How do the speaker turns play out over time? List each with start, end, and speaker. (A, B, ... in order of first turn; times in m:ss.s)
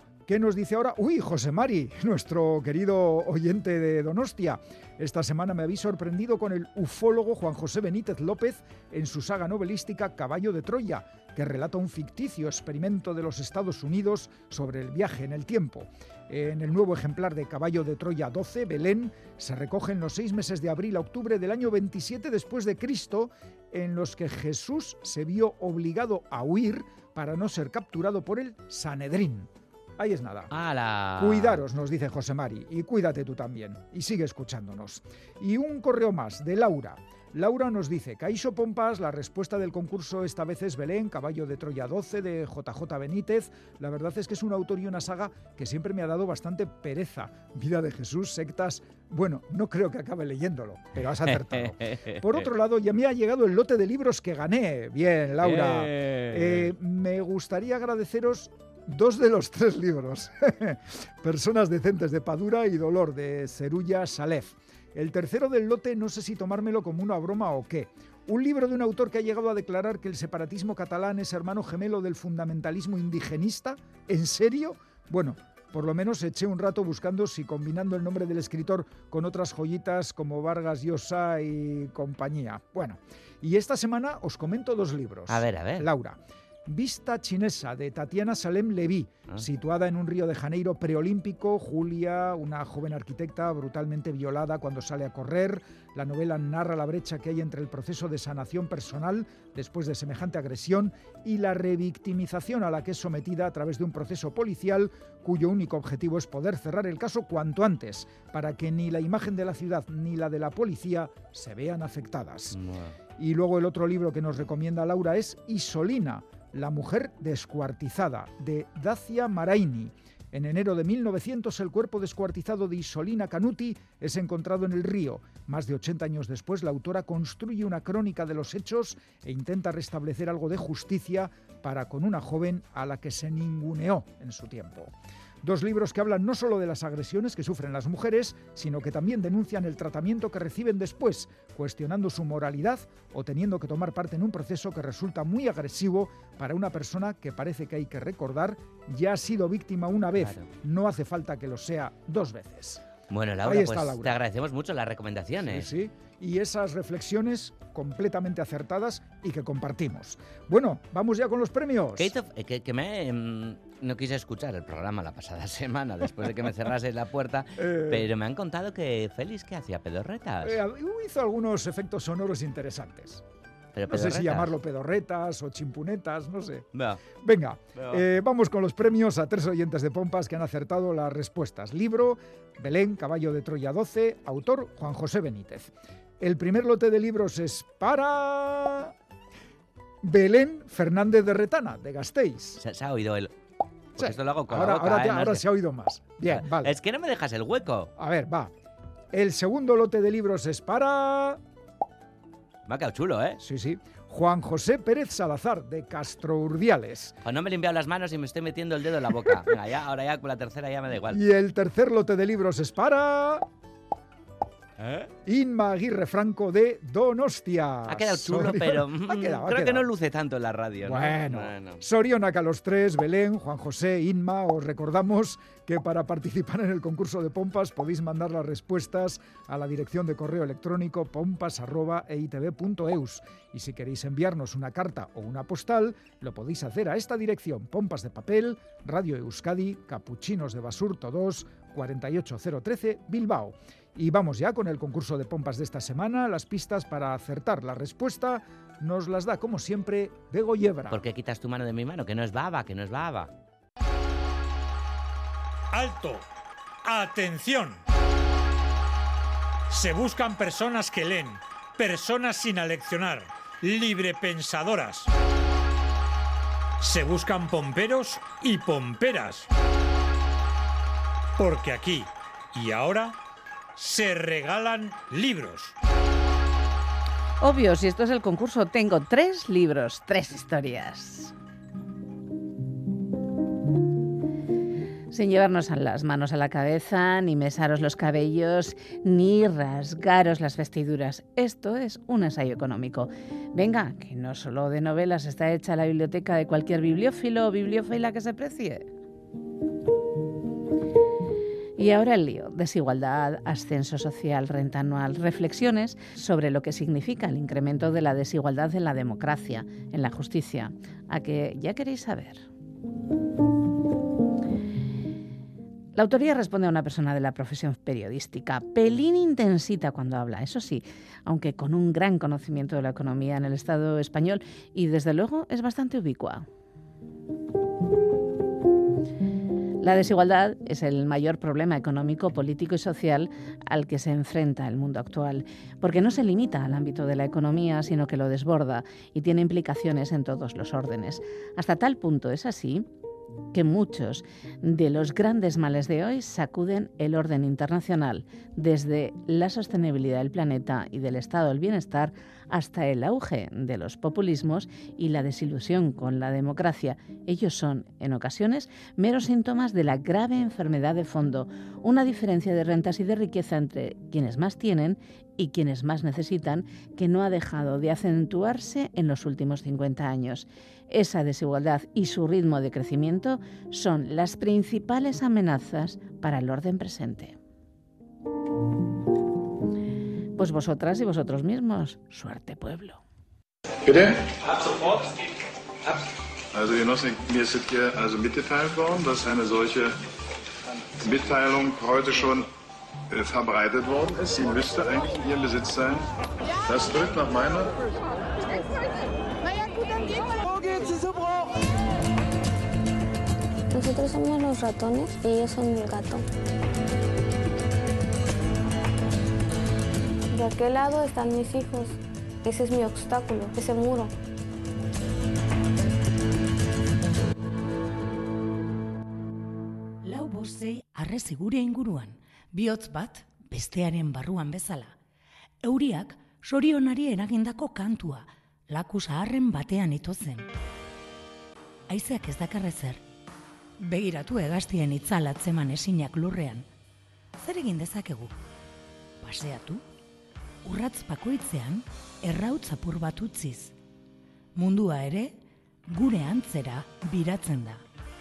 0:00.3-0:30.5 A
0:30.5-0:31.6 B
0:31.2-1:52.6 A
0:51.3-0:52.5 B
0:55.4-0:56.7 B
1:25.3-1:25.9 B
1:52.5-1:52.9 B
1:53.2-2:14.9 A
2:15.4-2:32.8 A
2:30.2-2:30.5 B
2:33.1-2:35.7 B
2:33.4-2:34.2 A
2:35.4-2:42.1 A
2:42.0-2:50.6 B
2:47.6-2:48.1 A
2:50.4-2:53.2 A
2:53.8-2:54.5 B
2:53.9-2:56.7 A
2:56.7-2:57.0 B
2:57.2-3:08.9 A
2:57.8-2:58.0 B
3:10.0-3:12.6 A
3:12.6-3:13.3 B
3:14.0-3:15.4 B
3:14.0-3:16.8 A
3:16.2-3:17.9 B
3:18.0-3:18.5 A
3:19.1-3:21.4 A
3:22.7-3:23.4 B
3:23.4-3:27.1 A
3:27.2-3:31.2 B
3:31.1-3:33.5 A
3:34.8-3:35.1 B
3:35.2-3:39.9 A
3:37.9-3:41.8 B
3:40.8-4:11.0 A
4:10.9-4:13.3 B
4:15.7-4:16.3 C
4:16.8-4:17.8 C
4:19.7-4:25.1 C
4:26.8-4:29.5 C
4:31.4-4:33.2 C
4:33.8-4:35.8 C
4:37.4-4:41.3 D
4:45.1-4:58.9 D
5:01.8-5:12.5 D
5:16.0-5:26.5 D
5:29.8-5:42.9 D
5:43.5-6:17.4 D
6:20.4-6:23.0 D
6:23.8-6:24.2 E
6:26.5-6:30.0 E
6:31.0-6:32.5 E
6:33.1-6:36.1 E
6:36.7-6:37.8 E
6:43.7-6:46.2 F
6:50.3-6:54.1 F
7:00.0-7:05.0 G
7:05.6-7:10.5 G
7:11.9-7:13.0 G
7:13.8-7:16.7 G
7:17.4-7:18.4 G
7:19.2-7:19.8 G
7:20.6-7:23.8 G
7:24.6-7:27.8 G